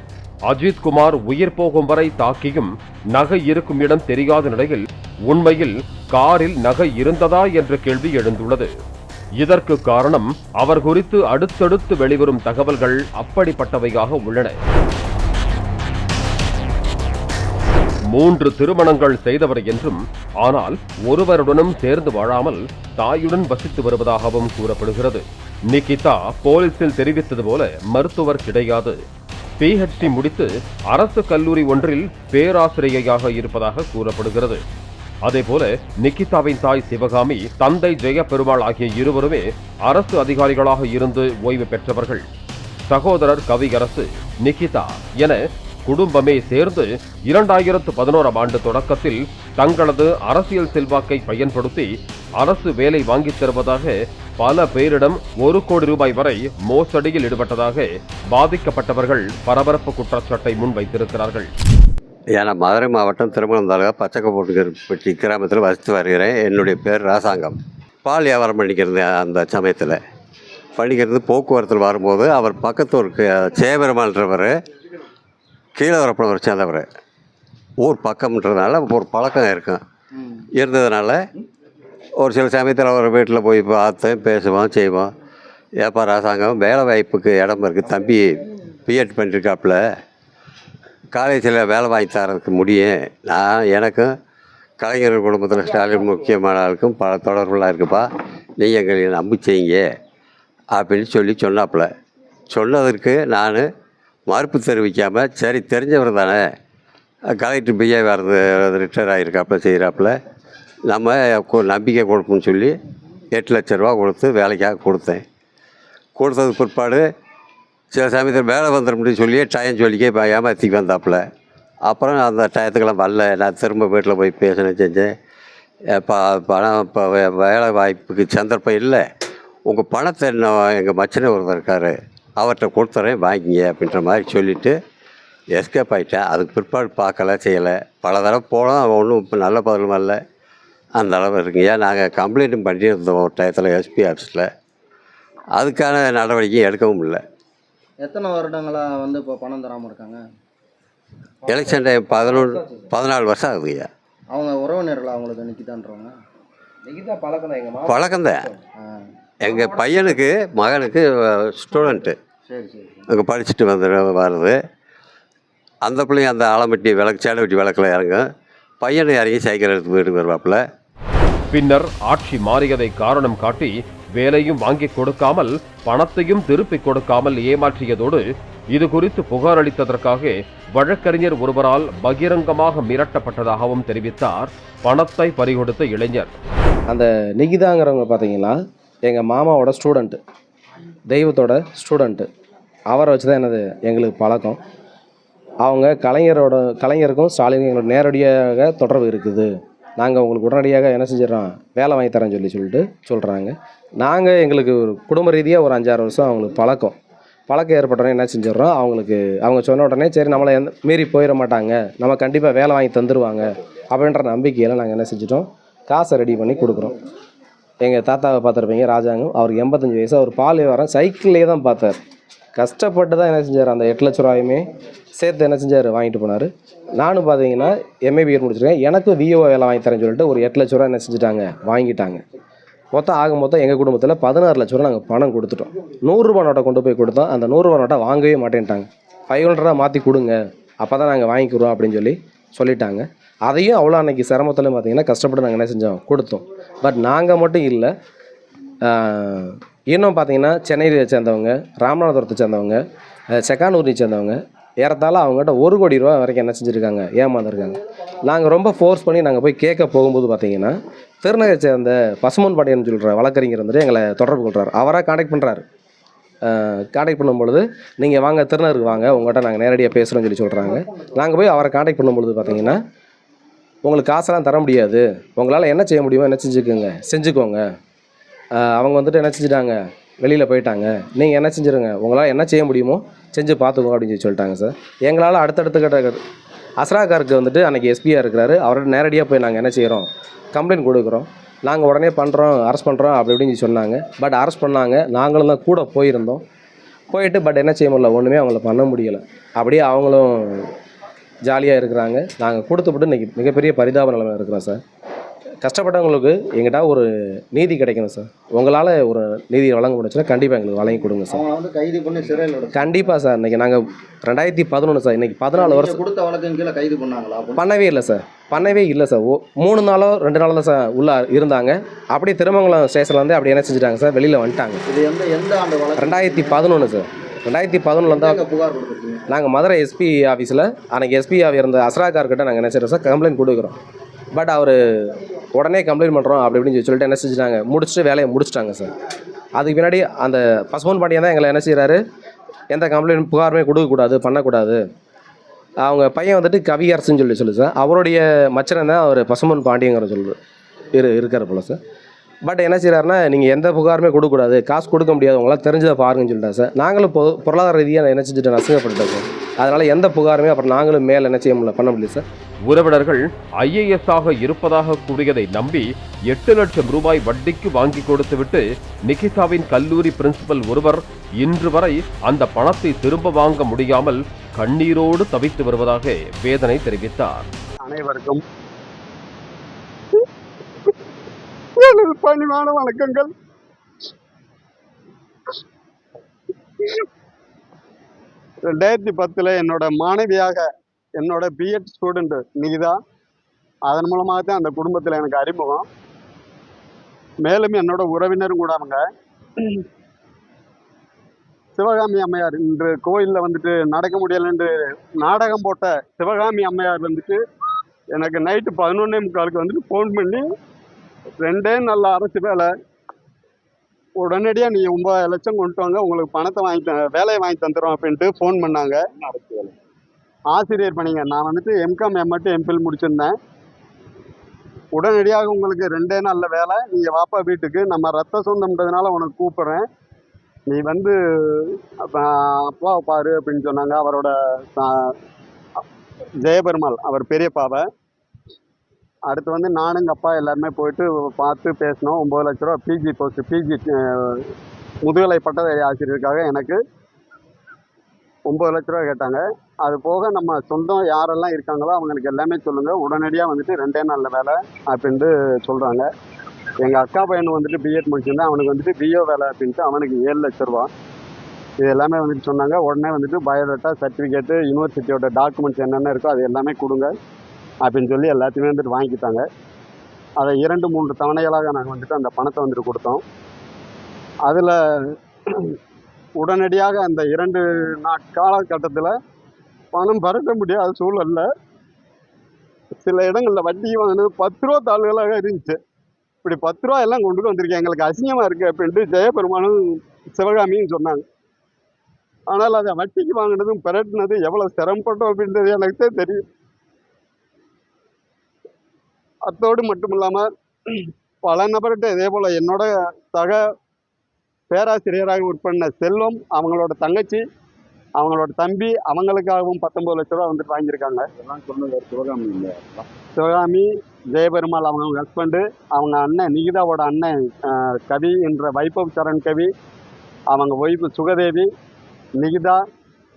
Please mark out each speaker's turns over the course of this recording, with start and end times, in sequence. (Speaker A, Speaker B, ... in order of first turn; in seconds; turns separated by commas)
Speaker A: 0.5-8.7, Speaker A: 9.4-14.6, Speaker A: 18.1-29.0, Speaker A: 29.6-34.6, Speaker A: 35.2-42.2, Speaker A: 42.9-51.9, Speaker A: 52.4-61.5, Speaker B: 62.3-70.0, Speaker B: 70.8-74.5, Speaker B: 75.8-76.9, Speaker B: 77.8-79.8, Speaker B: 80.6-81.2, Speaker B: 82.2-85.1, Speaker B: 85.8-89.8, Speaker B: 91.1-94.1, Speaker B: 94.8-98.1, Speaker B: 98.6-99.8, Speaker B: 100.7-101.9, Speaker B: 102.5-103.7, Speaker B: 104.3-106.5, Speaker B: 107.4-110.1, Speaker B: 110.9-112.7, Speaker B: 113.3-115.2, Speaker B: 116.2-117.0, Speaker B: 117.9-121.2, Speaker B: 121.9-125.1, Speaker B: 126.0-129.0, Speaker B: 129.7-134.8, Speaker B: 135.5-140.2, Speaker B: 141.0-144.5, Speaker B: 145.6-147.2, Speaker C: 148.0-150.2, Speaker D: 151.4-152.9, Speaker B: 151.5-153.9, Speaker C: 154.3-156.2, Speaker D: 156.9-158.4, Speaker B: 157.9-158.5, Speaker B: 159.4-162.2, Speaker D: 159.5-160.1, Speaker C: 159.6-160.1, Speaker C: 162.5-163.1, Speaker B: 163.1-164.6, Speaker B: 165.8-168.2, Speaker B: 168.8-170.6, Speaker A: 171.5-186.4, Speaker D: 186.9-190.2, Speaker D: 191.1-192.3, Speaker D: 192.9-194.6, Speaker D: 195.6-206.9, Speaker D: 207.5-216.9, Speaker D: 217.8-222.0, Speaker D: 222.6-224.7, Speaker D: 225.2-232.2, Speaker D: 232.9-247.9, Speaker D: 248.9-252.8, Speaker D: 253.4-265.6, Speaker D: 266.4-272.8, Speaker D: 273.8-277.6, Speaker D: 278.6-286.2, Speaker D: 286.8-296.4, Speaker D: 297.1-300.7, Speaker D: 301.5-304.8, Speaker D: 305.6-311.4, Speaker C: 311.3-313.0, Speaker D: 312.7-316.0, Speaker C: 315.5-317.7, Speaker D: 317.6-324.8, Speaker C: 324.9-326.6, Speaker D: 326.0-328.4, Speaker C: 328.0-329.2, Speaker D: 329.3-333.8, Speaker D: 334.4-338.9, Speaker D: 339.6-342.0, Speaker D: 342.7-344.8, Speaker D: 345.8-350.4, Speaker D: 350.9-351.8, Speaker D: 352.5-362.2, Speaker A: 362.7-377.5, Speaker E: 377.8-378.4, Speaker E: 381.8-383.3, Speaker E: 388.7-390.7, Speaker E: 391.2-393.0, Speaker E: 393.9-395.9, Speaker E: 397.4-399.0, Speaker E: 401.8-404.7, Speaker E: 405.2-407.4, Speaker E: 408.1-410.4, Speaker E: 411.4-412.7, Speaker E: 414.2-419.7, Speaker E: 420.5-423.3, Speaker E: 424.9-429.9, Speaker E: 430.7-434.9, Speaker E: 436.4-437.9, Speaker E: 439.3-444.5, Speaker E: 445.0-446.8, Speaker E: 448.5-456.1, Speaker E: 456.8-460.9, Speaker E: 461.8-467.1, Speaker E: 467.8-469.4, Speaker E: 470.4-473.2, Speaker E: 474.4-474.8, Speaker E: 476.4-479.1, Speaker E: 479.9-481.5, Speaker E: 483.0-485.8, Speaker E: 486.4-489.8, Speaker E: 490.4-491.2, Speaker E: 492.5-496.4, Speaker E: 499.5-503.6, Speaker E: 504.7-507.4, Speaker E: 508.2-519.7, Speaker E: 520.5-521.7, Speaker E: 522.4-522.8